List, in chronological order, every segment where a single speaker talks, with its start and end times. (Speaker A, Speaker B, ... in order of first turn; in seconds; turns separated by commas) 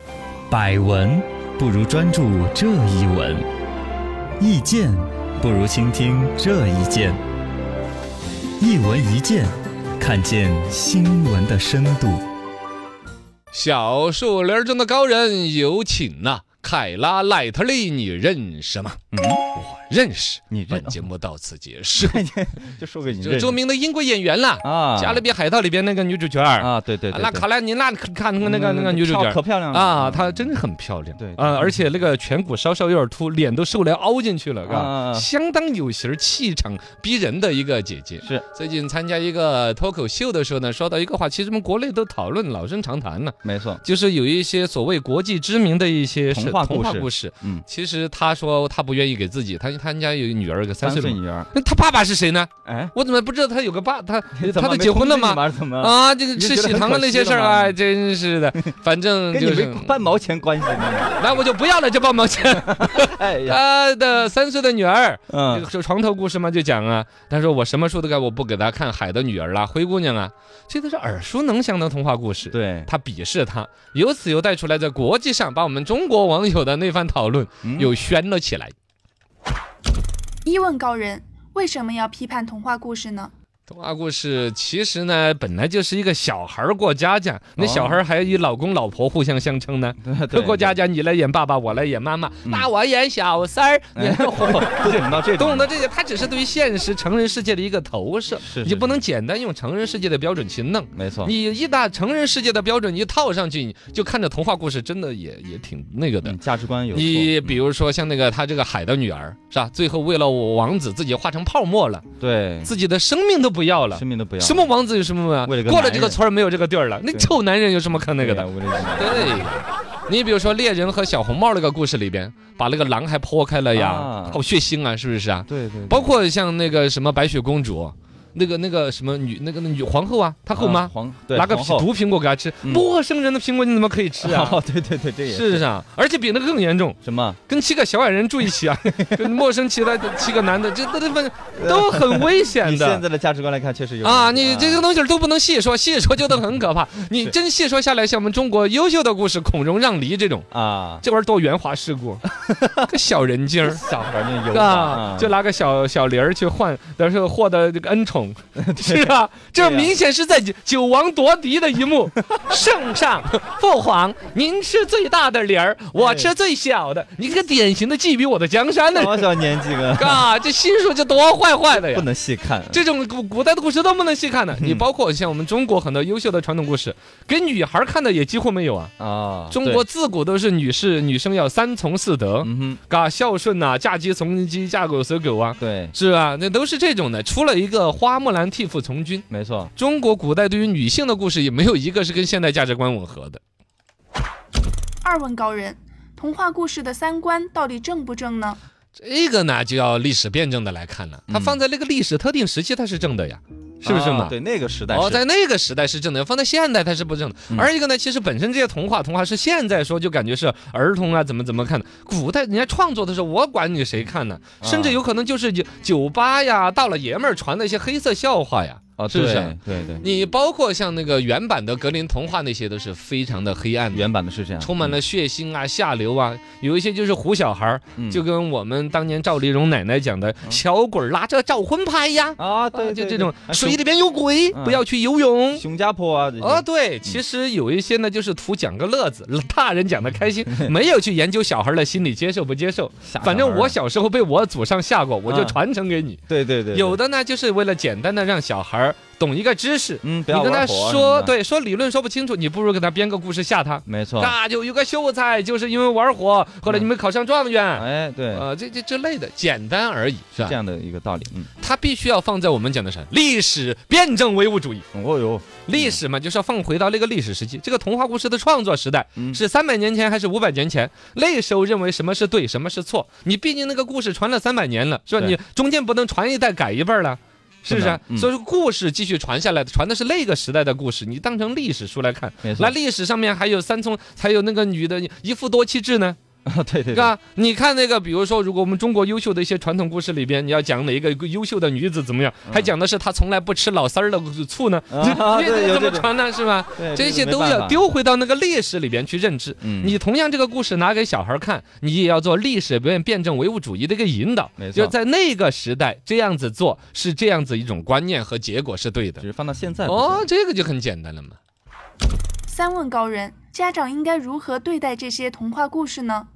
Speaker A: 0.5-3.4, Speaker A: 4.4-7.2, Speaker A: 8.6-12.2, Speaker B: 13.5-19.0, Speaker A: 19.1-19.4, Speaker B: 19.6-22.2, Speaker A: 20.5-21.0, Speaker A: 22.0-23.6, Speaker B: 23.2-59.9, Speaker A: 24.6-25.2, Speaker A: 26.6-27.5, Speaker A: 28.4-30.5, Speaker A: 31.2-31.9, Speaker A: 34.6-35.3, Speaker A: 43.4-43.8, Speaker A: 46.3-47.6, Speaker A: 50.8-51.5, Speaker A: 52.6-52.9, Speaker A: 54.3-57.8, Speaker A: 59.3-61.2, Speaker B: 61.2-78.7, Speaker A: 62.5-63.6, Speaker A: 65.3-65.6, Speaker A: 72.5-72.9, Speaker A: 77.6-77.9, Speaker C: 80.5-83.3, Speaker B: 83.7-106.3, Speaker A: 87.6-88.0, Speaker A: 90.0-90.8, Speaker A: 93.9-95.7, Speaker A: 98.4-99.0, Speaker A: 100.9-101.3, Speaker A: 106.2-107.6, Speaker B: 106.9-112.0, Speaker A: 112.2-112.7, Speaker B: 112.6-134.6, Speaker A: 113.9-114.7, Speaker A: 115.4-116.2, Speaker A: 118.1-119.5, Speaker A: 123.7-124.4, Speaker A: 125.5-126.1, Speaker A: 130.6-131.9, Speaker A: 134.2-135.6, Speaker B: 135.3-137.0, Speaker A: 137.0-137.4, Speaker B: 137.5-143.0, Speaker A: 141.6-144.8, Speaker B: 144.0-150.5, Speaker A: 150.5-151.0, Speaker B: 151.0-153.8, Speaker A: 152.5-152.8, Speaker A: 153.6-155.3, Speaker B: 154.5-169.3, Speaker A: 158.5-159.9, Speaker A: 165.9-166.3, Speaker A: 168.9-170.3, Speaker B: 170.0-172.1, Speaker A: 171.7-172.8, Speaker B: 172.7-178.9, Speaker A: 174.6-174.8, Speaker A: 179.0-179.8, Speaker B: 179.5-193.4, Speaker A: 182.4-182.8, Speaker A: 185.6-185.9, Speaker A: 189.3-189.7, Speaker C: 195.0-198.6, Speaker B: 198.9-204.3, Speaker A: 201.3-201.6, Speaker A: 203.8-205.2, Speaker B: 204.9-224.0, Speaker A: 214.6-215.0, Speaker A: 219.0-220.0, Speaker A: 223.9-224.9, Speaker B: 224.6-235.6, Speaker A: 228.0-228.2, Speaker A: 232.4-233.8, Speaker A: 234.5-234.8, Speaker A: 235.5-237.2, Speaker B: 236.4-246.2, Speaker A: 240.4-240.7, Speaker A: 243.0-243.7, Speaker A: 245.2-245.6, Speaker A: 246.3-247.0, Speaker B: 246.7-260.6, Speaker A: 250.0-251.3, Speaker A: 253.9-254.3, Speaker A: 257.7-258.4, Speaker A: 260.4-261.5, Speaker B: 261.6-264.9, Speaker A: 264.9-266.0, Speaker B: 265.6-286.2, Speaker A: 269.1-269.4, Speaker A: 277.7-278.3, Speaker A: 282.4-282.7, Speaker A: 286.4-287.1, Speaker B: 286.9-309.2, Speaker A: 294.9-296.1, Speaker A: 296.8-297.8, Speaker A: 299.6-300.0, Speaker A: 304.6-304.9, Speaker A: 309.2-310.3, Speaker B: 309.9-311.4, Speaker C: 312.5-316.3